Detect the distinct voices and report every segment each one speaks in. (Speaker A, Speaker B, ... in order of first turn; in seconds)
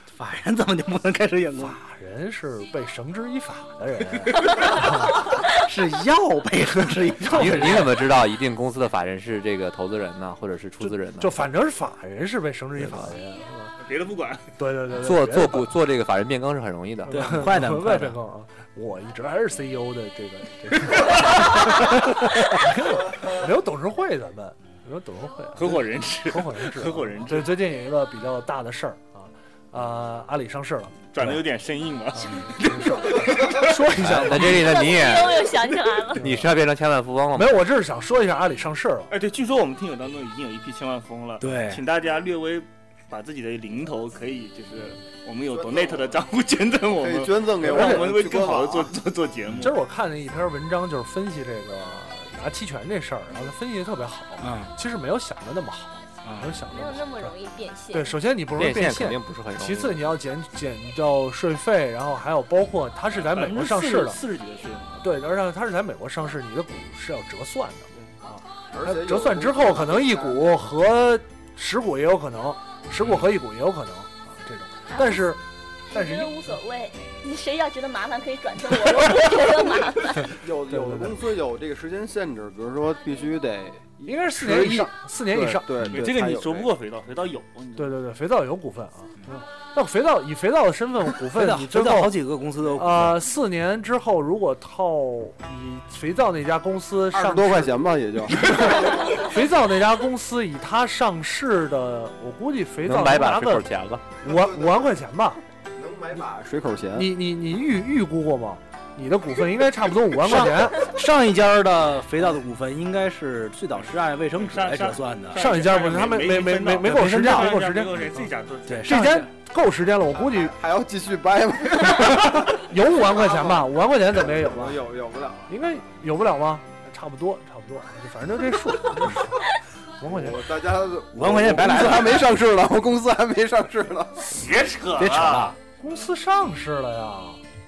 Speaker A: 0.2-1.8, 5.4-8.0, 17.1-18.2, 41.4-41.8, 54.4-54.7, 56.2-56.6, 91.3-93.2, 110.2-115.5, 116.9-117.5, 118.7-119.3, 131.1-132.3, 135.0-135.6
Speaker B: 1.6-5.2, 7.1-8.0, 10.8-13.7, 14.6-15.7, 17.1-31.4, 32.2-34.9, 36.2-36.5, 37.3-39.1, 47.6-48.1, 49.6-57.3, 57.9-64.2, 65.0-76.4, 80.7-81.2, 84.0-85.9, 87.8-92.2, 92.7-103.7, 104.2-105.4, 106.9-110.9, 115.3-118.3, 118.8-120.5, 121.9-124.8, 125.5-130.5, 135.8-137.4
Speaker C: 7.3-11.4, 14.9-17.4, 34.0-35.5, 36.1-37.6, 58.6-60.0, 102.8-104.0
Speaker D: 13.8-14.5, 25.6-27.5, 31.1-33.9, 39.1-49.8, 63.2-65.1, 85.9-87.9, 114.3-119.0, 134.3-135.6
Speaker E: 34.4-36.2, 56.7-58.2, 74.9-75.3, 75.9-80.3
Speaker F: 45.5-46.2, 46.9-49.0, 68.7-70.5, 80.3-86.7, 97.1-99.3, 104.2-104.9, 105.8-107.1, 120.2-125.5, 130.0-134.4